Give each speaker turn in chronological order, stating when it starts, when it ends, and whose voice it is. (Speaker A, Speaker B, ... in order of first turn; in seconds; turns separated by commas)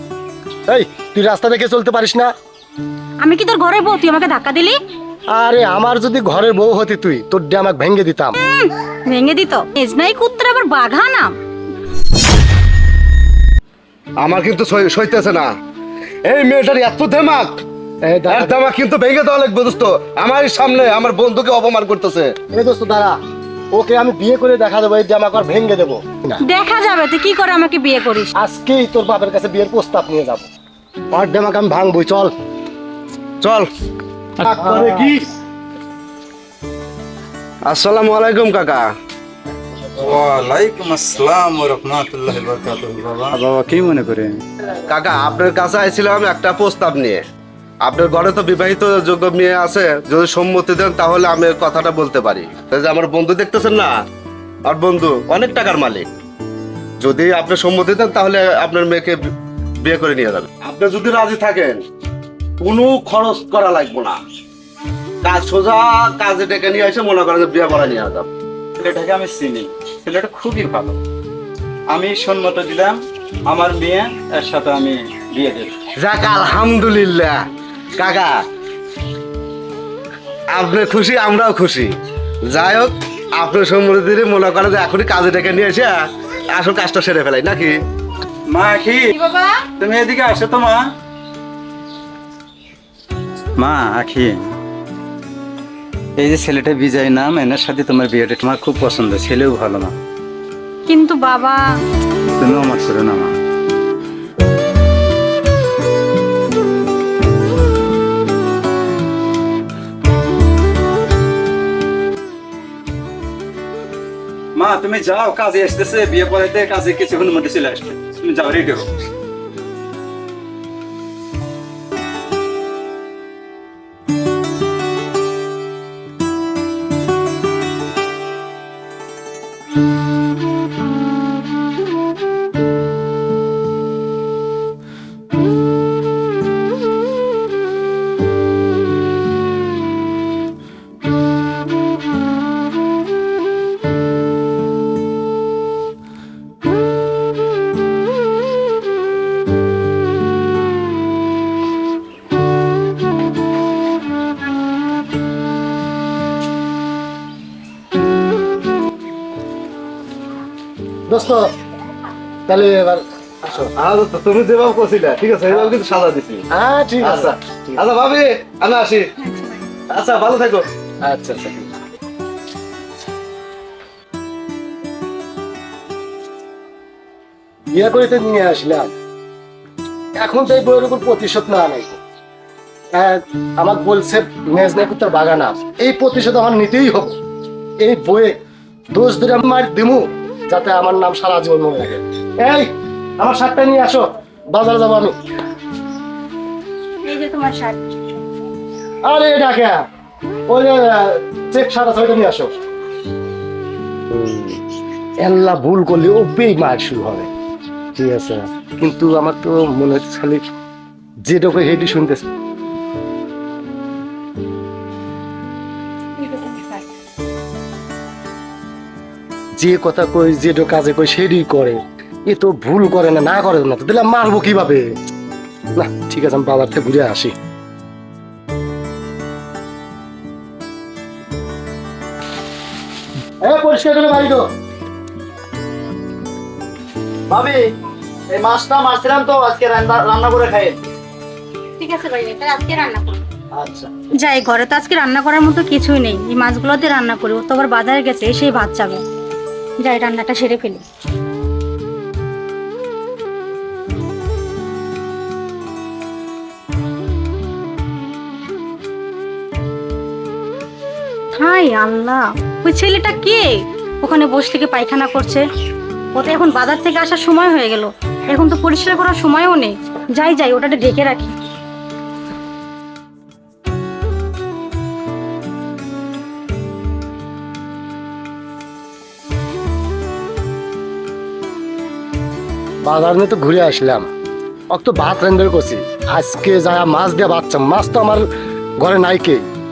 Speaker A: 0.7-2.3, Speaker B: 3.2-4.8, Speaker A: 5.3-8.4, Speaker B: 8.4-11.4, Speaker C: 14.2-15.5, Speaker C: 16.2-17.6, Speaker A: 18.1-18.6, Speaker C: 18.3-22.4, Speaker A: 22.5-23.2, Speaker A: 23.7-26.4, Speaker B: 26.5-28.3, Speaker A: 28.4-30.5, Speaker A: 31.1-32.3, Speaker C: 33.4-33.7, Speaker C: 34.4-35.3, Speaker A: 34.6-35.1, Speaker C: 37.7-38.9, Speaker D: 40.0-44.4, Speaker C: 44.9-47.2, Speaker C: 47.8-53.9, Speaker C: 54.7-56.1, Speaker C: 57.0-59.2, Speaker C: 59.8-61.8, Speaker C: 62.6-64.2, Speaker C: 65.2-68.3, Speaker D: 68.8-71.0, Speaker D: 71.9-75.7, Speaker C: 76.0-77.4, Speaker C: 78.0-78.4, Speaker C: 80.5-81.9, Speaker C: 82.5-87.8, Speaker D: 88.5-89.2, Speaker B: 89.2-89.6, Speaker D: 89.8-90.9, Speaker D: 93.6-94.5, Speaker D: 96.2-100.0, Speaker B: 100.9-101.6, Speaker D: 102.4-103.4, Speaker D: 114.6-118.9, Speaker A: 161.1-161.5, Speaker A: 162.5-163.7, Speaker C: 163.7-166.4, Speaker A: 166.5-167.3, Speaker C: 167.0-169.1, Speaker B: 169.2-169.6, Speaker C: 169.9-170.7, Speaker A: 171.1-171.7, Speaker A: 177.7-178.9, Speaker A: 180.2-182.0, Speaker A: 182.9-187.2, Speaker A: 187.8-188.4, Speaker A: 188.9-195.2, Speaker B: 197.0-197.9, Speaker A: 199.1-199.8, Speaker A: 200.5-202.5, Speaker A: 204.1-204.6, Speaker A: 205.2-207.3, Speaker A: 208.0-210.4, Speaker A: 211.3-212.2, Speaker B: 216.2-216.8, Speaker A: 219.6-224.8, Speaker A: 225.8-227.3, Speaker A: 233.4-234.4, Speaker E: 237.3-237.8, Speaker E: 238.3-240.8, Speaker B: 241.8-243.2, Speaker E: 243.5-243.9, Speaker B: 244.2-249.0, Speaker B: 249.8-250.8, Speaker B: 261.3-265.4, Speaker B: 266.1-271.3, Speaker A: 282.9-284.1, Speaker A: 284.7-288.3, Speaker A: 288.8-289.5